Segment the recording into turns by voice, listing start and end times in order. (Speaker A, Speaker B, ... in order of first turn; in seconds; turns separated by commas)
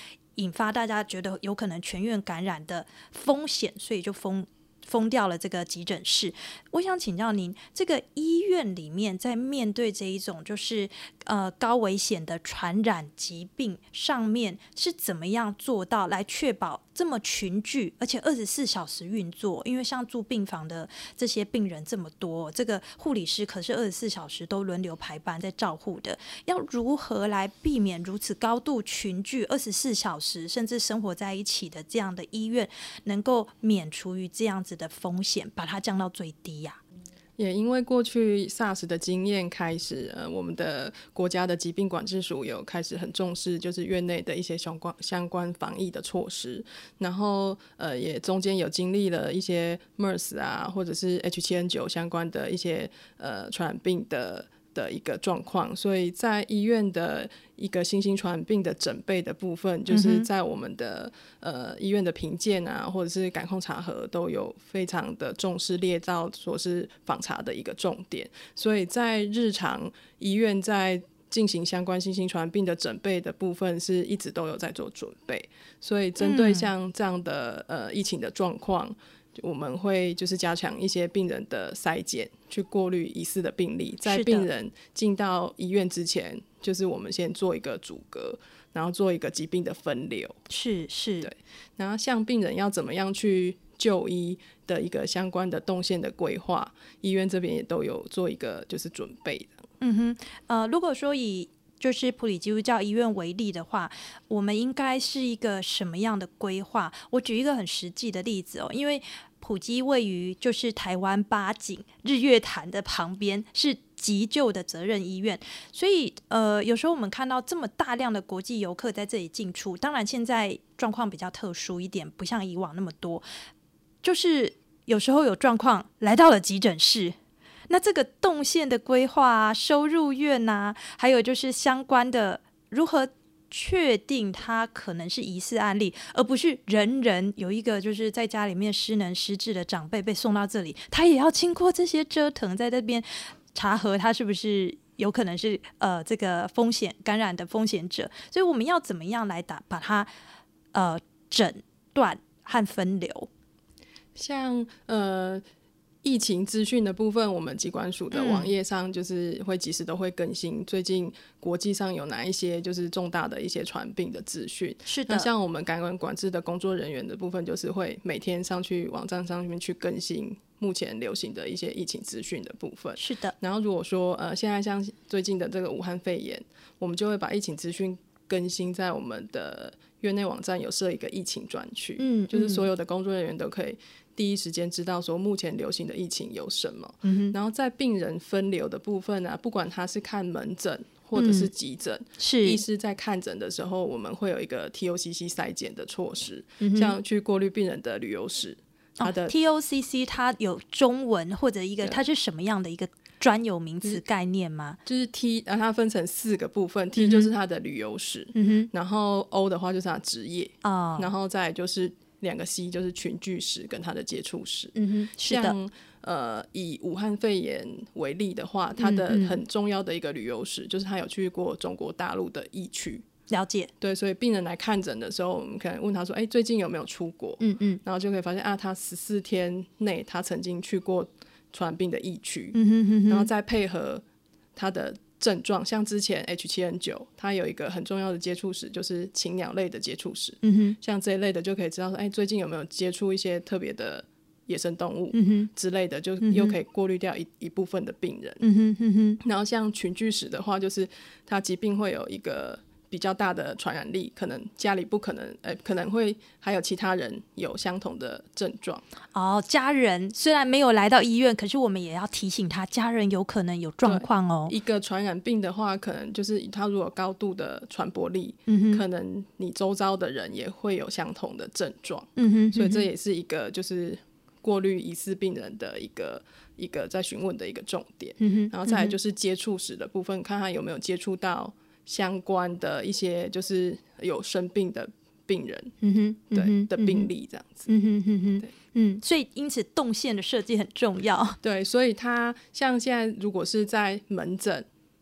Speaker A: 0.3-36.8, Speaker B: 37.4-90.4, Speaker A: 59.9-60.3, Speaker A: 76.2-76.7, Speaker A: 84.0-84.5, Speaker A: 90.5-91.3, Speaker B: 91.2-99.6, Speaker A: 99.8-123.2, Speaker A: 124.0-127.2, Speaker A: 127.7-150.1, Speaker A: 150.7-153.3, Speaker B: 154.2-155.4, Speaker B: 156.0-199.3, Speaker A: 158.1-158.5, Speaker A: 164.8-165.3, Speaker A: 172.9-173.3, Speaker A: 182.0-182.7, Speaker A: 187.0-187.3, Speaker A: 191.1-191.5, Speaker A: 192.2-192.6, Speaker A: 196.6-196.9, Speaker A: 199.0-204.8, Speaker B: 204.8-223.0, Speaker A: 207.0-207.3, Speaker A: 208.3-208.7, Speaker A: 210.6-211.1, Speaker A: 214.8-215.5, Speaker A: 218.8-219.4, Speaker A: 223.3-223.7, Speaker B: 223.8-232.6, Speaker A: 227.4-227.8, Speaker A: 232.5-233.3, Speaker B: 233.1-234.0, Speaker B: 234.6-248.4, Speaker A: 240.4-240.8, Speaker A: 245.1-245.5, Speaker A: 246.2-246.6, Speaker A: 248.4-249.2, Speaker B: 249.2-258.8, Speaker A: 259.1-264.5, Speaker B: 263.8-285.7, Speaker A: 268.5-268.8, Speaker A: 272.2-272.9, Speaker A: 278.2-278.9, Speaker A: 285.8-287.1, Speaker B: 286.3-287.7, Speaker A: 287.7-291.4, Speaker B: 291.4-294.6